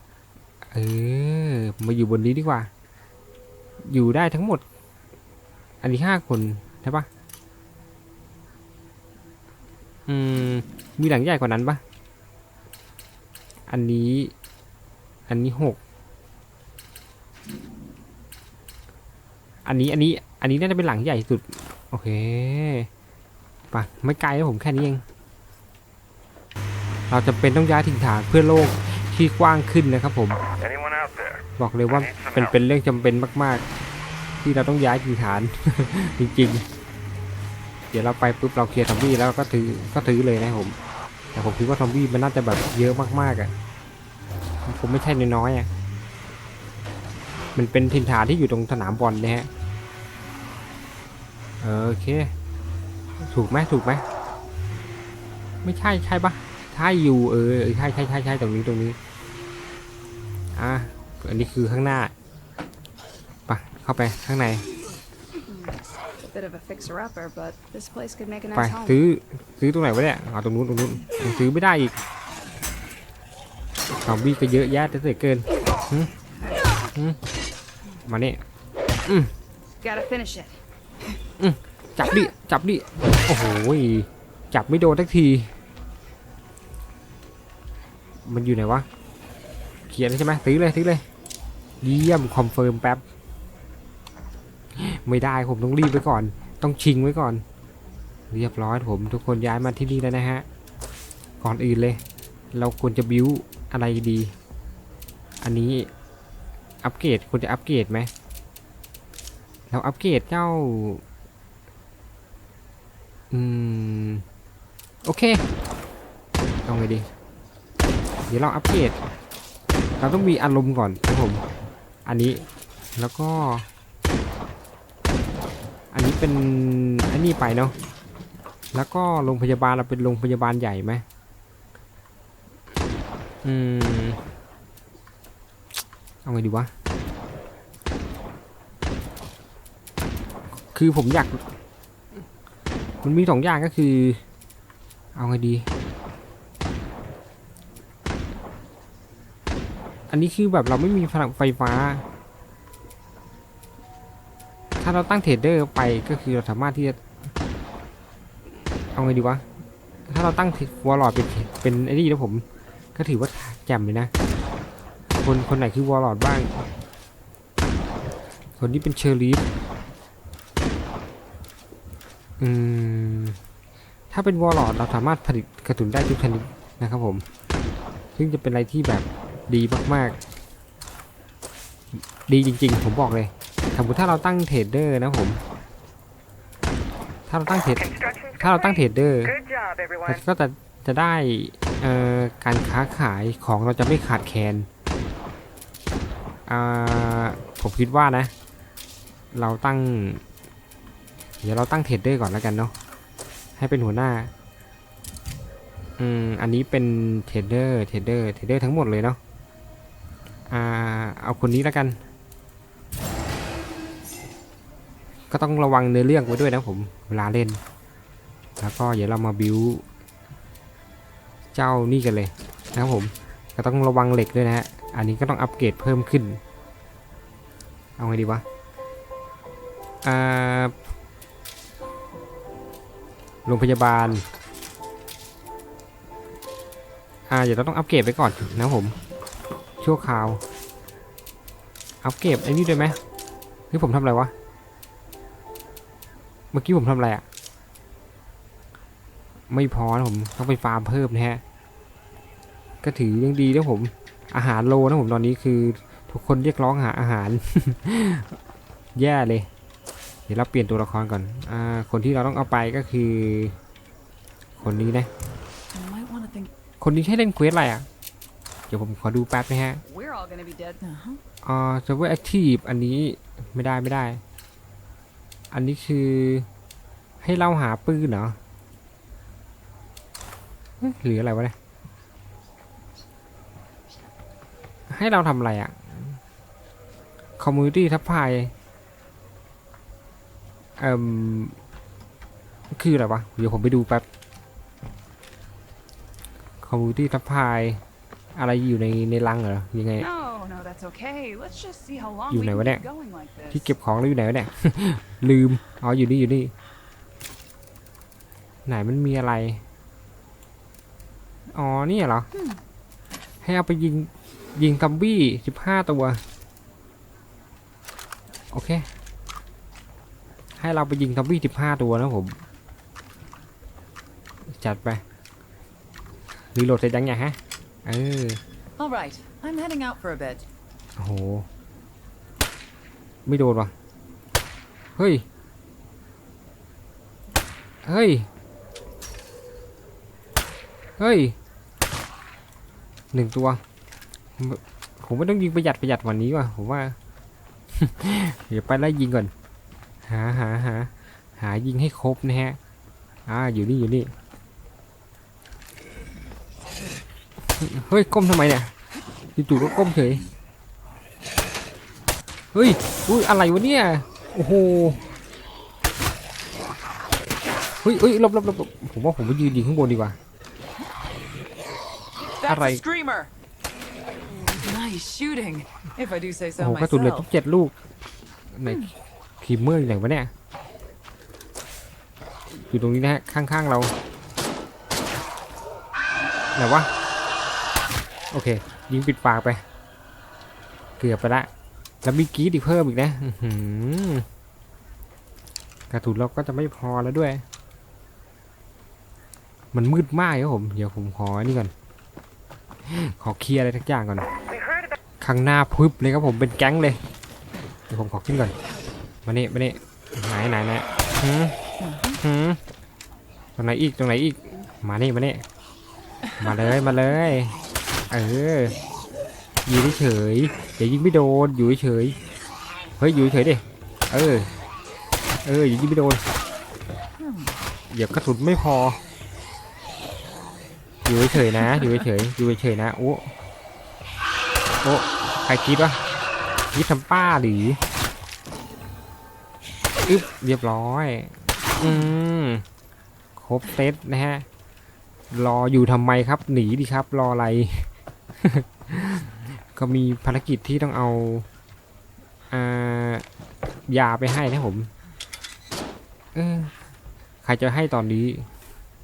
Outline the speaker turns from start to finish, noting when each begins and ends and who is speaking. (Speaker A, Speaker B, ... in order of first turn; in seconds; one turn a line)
Speaker A: 0.7-2.7
Speaker A: 3.9-4.6
Speaker A: 5.8-7.1
Speaker A: 10.1-11.8
Speaker A: 13.7-14.3
Speaker A: 15.3-15.8
Speaker A: 19.6-22.9
Speaker A: 23.7-25.0
Speaker A: 27.1-30.4
Speaker B: 30.6-31.4
Speaker A: 31.6-33.6
Speaker B: 32.0-32.4
Speaker A: 34.4-36.6
Speaker A: 37.9-40.8
Speaker A: 41.3-43.5
Speaker A: 44.6-45.7
Speaker A: 47.5-49.5
Speaker A: 51.6-52.3
Speaker A: 53.2-54.0
Speaker A: 55.6-59.0
Speaker A: 60.5-62.1
Speaker A: 63.5-64.6
Speaker C: 65.5-69.0
Speaker A: 68.5-72.0
Speaker A: 74.0-76.1
Speaker A: 78.0-78.4
Speaker A: 79.1-79.3
Speaker C: 79.8-80.6
Speaker A: 81.4-85.5
Speaker A: 88.2-88.9
Speaker A: 89.9-91.0
Speaker A: 91.8-93.0
Speaker A: 94.8-97.4
Speaker A: 98.3-100.5
Speaker A: 101.4-102.0
Speaker A: 102.5-104.3
Speaker A: 105.4-105.9
Speaker A: 106.8-108.1
Speaker A: 109.7-111.0
Speaker A: 113.3-114.2
Speaker A: 115.0-115.5
Speaker A: 116.6-117.1
Speaker A: 118.3-119.0
Speaker A: 120.0-121.4
Speaker A: 122.0-122.4
Speaker A: 123.0-123.7
Speaker A: 125.9-127.7
Speaker A: 128.7-131.0
Speaker A: 133.4-134.2
Speaker A: 136.2-136.7
Speaker A: 140.7-141.4
Speaker A: 143.0-144.2
Speaker A: 145.1-145.7
Speaker A: 150.1-152.0
Speaker A: 154.8-157.0
Speaker A: 158.9-159.4
Speaker A: 160.1-164.1
Speaker A: 165.2-166.7
Speaker A: 168.6-169.4
Speaker A: 172.4-173.4
Speaker A: 174.1-177.2
Speaker A: 178.2-180.2
Speaker A: 181.9-185.4
Speaker A: 187.3-189.4
Speaker B: 187.8-188.8
Speaker B: 189.3-190.1
Speaker A: 190.0-194.7
Speaker A: 196.5-198.3
Speaker A: 199.3-200.2
Speaker A: 201.4-202.7
Speaker A: 203.6-204.3
Speaker A: 206.0-209.2
Speaker A: 210.5-212.0
Speaker A: 215.3-217.6
Speaker A: 218.6-219.8
Speaker A: 221.5-226.4
Speaker A: 228.0-228.4
Speaker A: 230.0-230.7
Speaker A: 233.4-234.2
Speaker A: 237.3-238.9
Speaker A: 239.8-240.4
Speaker A: 242.0-243.0
Speaker A: 243.7-244.3
Speaker A: 246.5-247.2
Speaker A: 249.5-251.4
Speaker A: 252.8-258.4
Speaker A: 258.9-259.5
Speaker A: 260.3-263.5
Speaker A: 264.6-265.1
Speaker D: 265.7-266.5
Speaker A: 266.8-267.9
Speaker A: 268.7-269.8
Speaker C: 269.8-270.8
Speaker D: 270.8-271.2
Speaker A: 271.4-274.2
Speaker A: 275.5-276.5
Speaker A: 277.2-278.4
Speaker A: 280.8-281.5
Speaker A: 284.9-286.2
Speaker A: 287.4-288.5
Speaker A: 290.8-291.6
Speaker A: 292.7-294.0
Speaker A: 296.6-297.8
Speaker A: 298.3-300.1
Speaker C: 300.0-303.7
Speaker A: 302.3-302.8
Speaker A: 303.5-306.5
Speaker A: 308.6-309.6
Speaker A: 311.5-312.3
Speaker A: 313.4-316.2
Speaker A: 318.5-318.9
Speaker A: 320.6-322.4
Speaker A: 324.6-325.0
Speaker A: 326.5-328.4
Speaker D: 328.8-330.4
Speaker A: 331.0-331.5
Speaker A: 333.2-333.7
Speaker A: 335.0-335.2
Speaker A: 337.8-338.3
Speaker A: 341.0-341.4
Speaker A: 343.1-343.6
Speaker A: 344.4-346.9
Speaker A: 347.7-349.3
Speaker A: 350.1-352.6
Speaker A: 353.2-354.1
Speaker A: 357.5-358.7
Speaker A: 359.4-360.2
Speaker A: 362.5-365.0
Speaker A: 367.8-370.2
Speaker D: 372.4-373.3
Speaker A: 372.4-372.8
Speaker D: 374.3-377.3
Speaker A: 376.6-377.7
Speaker A: 378.5-380.3
Speaker D: 378.6-378.9
Speaker A: 382.5-383.9
Speaker A: 386.5-386.9
Speaker A: 388.3-389.6
Speaker A: 391.0-391.5
Speaker A: 392.0-394.2
Speaker A: 395.9-397.4
Speaker A: 399.7-401.7
Speaker A: 402.9-404.3
Speaker B: 404.6-404.9
Speaker A: 405.2-407.0
Speaker A: 407.9-408.5
Speaker A: 409.2-411.6
Speaker D: 411.8-412.2
Speaker A: 412.1-412.6
Speaker A: 413.6-415.4
Speaker A: 416.4-417.6
Speaker A: 418.1-418.8
Speaker A: 419.6-422.2
Speaker A: 423.0-424.5
Speaker A: 425.4-426.2
Speaker D: 427.2-427.6
Speaker A: 427.9-429.0
Speaker A: 431.0-433.3
Speaker A: 434.8-436.0
Speaker A: 436.7-437.8
Speaker A: 440.0-442.6
Speaker A: 443.4-444.4
Speaker A: 445.3-447.9
Speaker A: 448.4-451.5
Speaker A: 452.5-453.2
Speaker A: 453.9-454.9
Speaker A: 456.3-456.7
Speaker A: 457.4-458.5